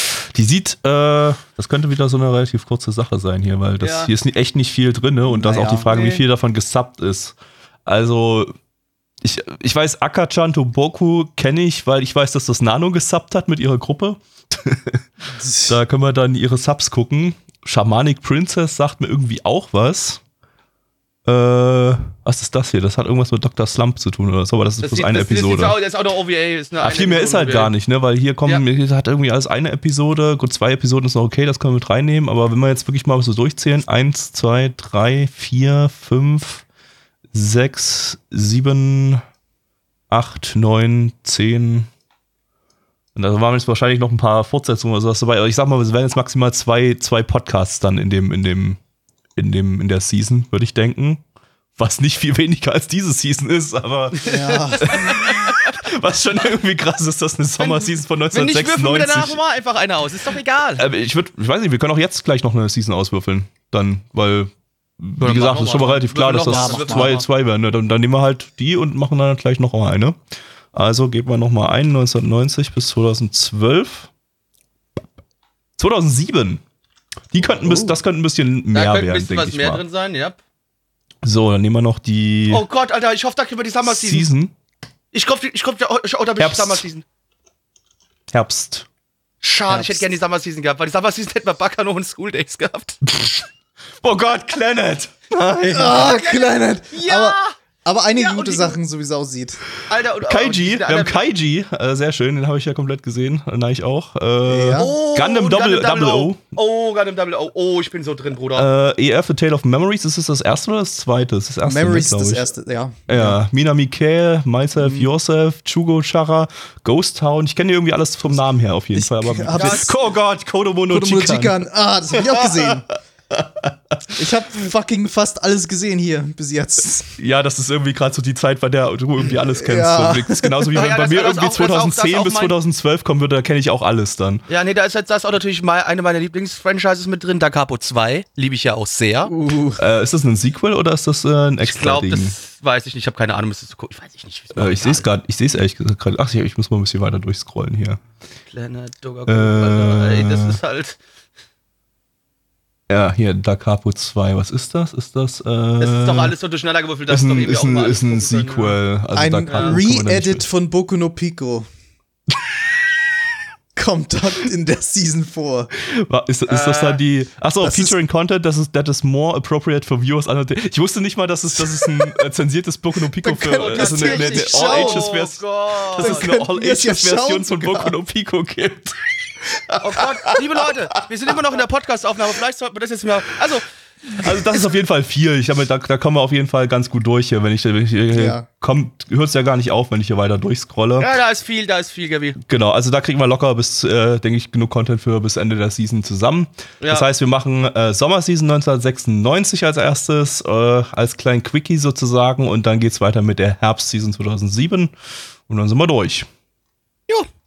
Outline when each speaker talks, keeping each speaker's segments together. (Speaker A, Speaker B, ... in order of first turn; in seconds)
Speaker A: 0.3-7.3, 7.9-8.5, 9.2-15.0, 15.7-20.2, 21.3-25.8, 26.8-36.6, 37.3-39.2, 40.1-41.9, 43.1-48.8, 49.4-51.2, 51.8-59.4, 60.8-70.2, 70.7-74.1, 75.8-76.6, 77.3-79.8, 81.2-82.6, 83.9-84.5, 86.4-86.8, 88.3-88.9, 93.1-93.5, 94.0-96.2, 100.2-106.4, 108.5-112.5, 113.1-121.6, 122.4-122.7, 123.3-123.7, 127.2-134.4, 139.8-142.3, 144.6-148.0, 149.3-150.6, 152.9-156.3, 157.1-160.5, 165.8-179.0, 184.1-191.1, 192.4-204.9, 205.5-206.3
Speaker B: 3.8-4.1, 5.9-6.2, 24.8-27.7, 54.2-55.6, 57.6-60.9, 65.2-67.2, 78.7-80.4, 82.5-84.3, 85.1-87.0, 89.4-93.0, 95.8-97.5, 98.2-98.8, 99.9-101.2, 104.8-108.7, 119.5-119.9, 130.8-132.5, 134.5-139.3, 141.6-145.1, 148.5-151.0, 155.8-158.8, 159.5-159.8, 166.5-167.0, 173.3-176.3, 179.7-183.7, 191.0-192.4
Speaker C: 5.3-5.9, 15.3-15.8, 54.3-55.0, 66.5-67.2, 77.4-78.0, 89.7-90.0, 95.7-99.6, 104.5-105.0, 111.6-113.4, 114.8-115.1, 118.9-119.9, 120.9-122.9, 124.2-127.1, 129.6-130.9, 139.3-139.8, 159.2-161.7, 163.8-165.7, 167.6-168.0, 173.5-175.1, 176.0-177.9, 188.1-188.4